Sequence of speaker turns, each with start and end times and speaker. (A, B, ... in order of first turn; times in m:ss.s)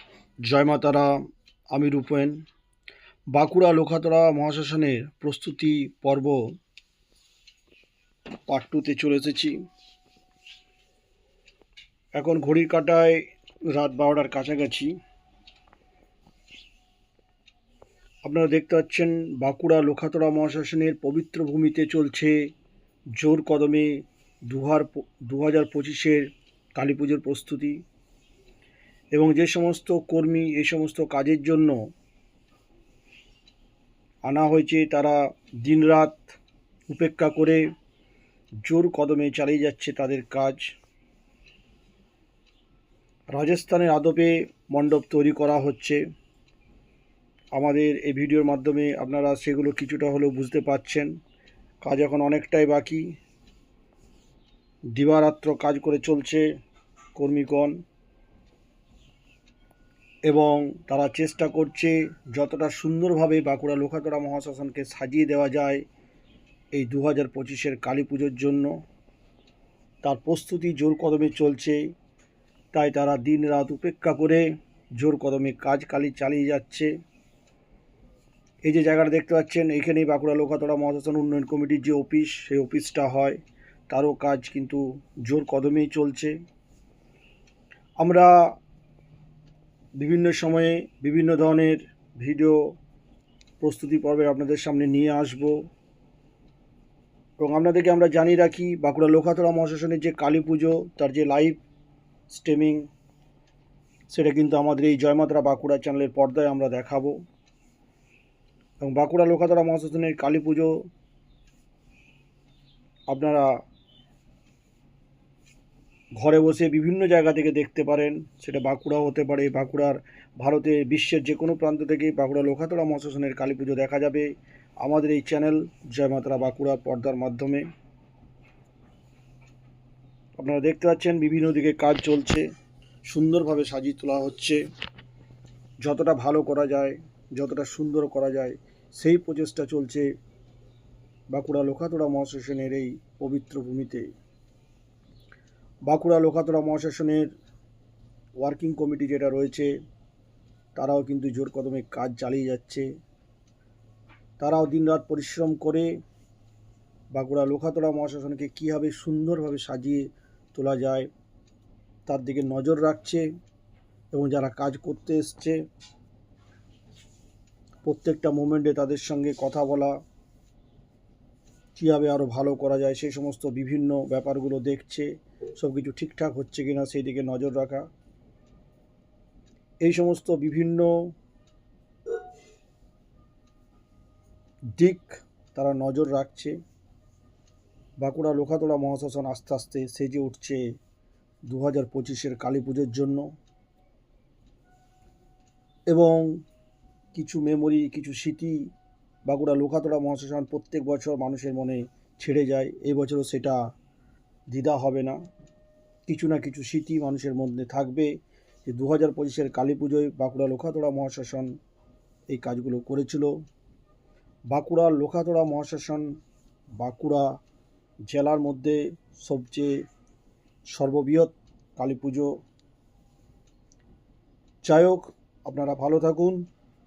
0:00.4-0:01.2 A
0:01.7-0:02.4 A
0:03.3-0:06.4 A
0:08.5-0:09.6 A
0:12.2-0:14.9 A
0:18.2-0:22.4 A
0:23.2-0:27.8 A
0:29.1-0:31.8 A
0:34.2-0:36.3 A
0:36.9-0:37.6 A
0:38.6-0:40.6 A
0:43.3-0:46.0 A
0:47.5-0:51.1 A
0:51.8-0:53.1 A
0:54.9-0:56.4 A
0:57.1-0:57.7 A
1:00.2-1:05.8 A
1:06.7-1:08.7 A
1:10.0-1:11.8 A
1:12.7-1:14.4 A
1:15.0-1:16.9 A
1:18.6-1:23.4 A
1:23.9-1:26.3 A
1:28.0-1:28.4 A
1:30.0-1:32.6 A
1:33.6-1:35.6 A
1:37.4-1:41.6 A
1:42.3-1:42.9 A
1:44.1-1:47.2 A
1:48.8-1:50.8 A
1:53.1-1:53.5 A
1:56.2-2:07.7 A
2:10.4-2:12.4 A
2:13.0-2:14.6 A
2:15.8-2:20.0 A
2:21.3-2:24.1 A
2:25.9-2:27.3 A
2:28.4-2:29.7 A
2:30.8-2:32.8 A
2:34.4-2:35.9 A
2:37.1-2:41.1 A
2:42.1-2:43.2 A
2:44.1-2:45.6 A
2:47.8-2:50.0 A
2:51.8-2:57.9 A
2:59.8-3:01.1 A
3:04.7-3:06.6 A
3:08.0-3:10.6 A
3:11.5-3:13.3 A
3:15.9-3:16.4 A
3:17.1-3:18.6 A
3:19.2-3:23.6 A
3:24.5-3:25.2 A
3:26.1-3:28.1 A
3:28.6-3:31.5 A
3:32.3-3:33.3 A
3:34.5-3:36.1 A
3:36.8-3:37.3 A
3:38.1-3:39.8 A
3:40.7-3:42.3 A
3:44.6-3:46.5 A